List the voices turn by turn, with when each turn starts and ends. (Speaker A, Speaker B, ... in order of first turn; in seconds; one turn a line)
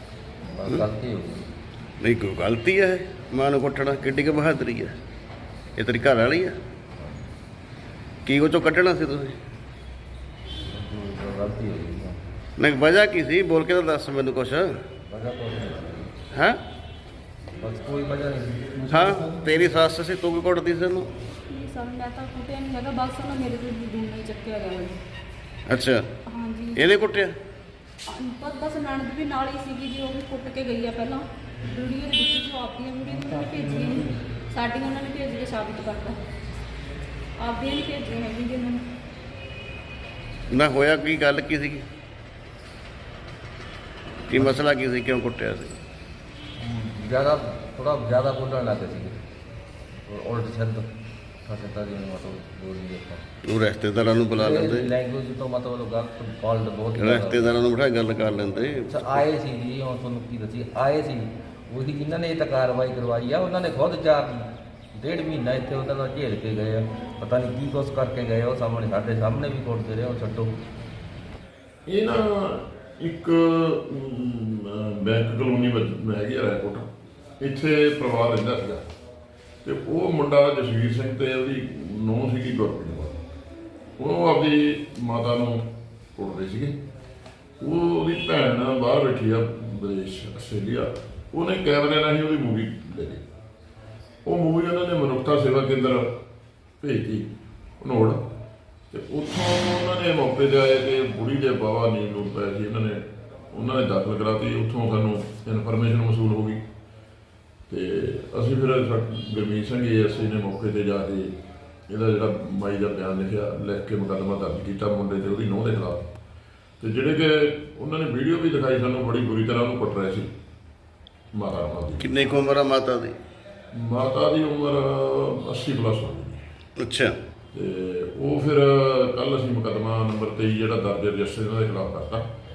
Speaker A: 0.5-1.5
Speaker B: 2.0-5.0
Speaker B: 5.8-6.6
Speaker B: 8.3-9.4
Speaker A: 10.7-12.2
Speaker B: 12.6-14.7
Speaker A: 15.1-16.1
Speaker B: 16.3-16.6
Speaker A: 17.6-19.7
Speaker B: 18.9-21.1
Speaker C: 21.5-25.0
Speaker B: 25.7-26.0
Speaker C: 26.4-26.9
Speaker B: 26.8-27.4
Speaker C: 28.1-36.2
Speaker C: 37.4-38.8
Speaker B: 40.5-41.9
Speaker B: 44.3-45.8
Speaker A: 46.6-49.2
Speaker A: 50.1-50.9
Speaker A: 51.5-53.2
Speaker B: 53.4-54.9
Speaker A: 54.3-57.7
Speaker B: 57.0-59.2
Speaker A: 58.9-70.6
Speaker D: 71.9-76.9
Speaker D: 77.4-78.9
Speaker D: 79.7-83.2
Speaker D: 84.0-86.8
Speaker D: 87.6-93.2
Speaker D: 94.2-96.2
Speaker D: 96.8-98.2
Speaker D: 98.9-106.6
Speaker D: 107.7-111.3
Speaker D: 111.9-116.1
Speaker D: 116.8-120.3
Speaker D: 121.3-122.2
Speaker B: 122.0-123.2
Speaker D: 123.7-126.4
Speaker B: 126.8-127.2
Speaker D: 127.5-132.3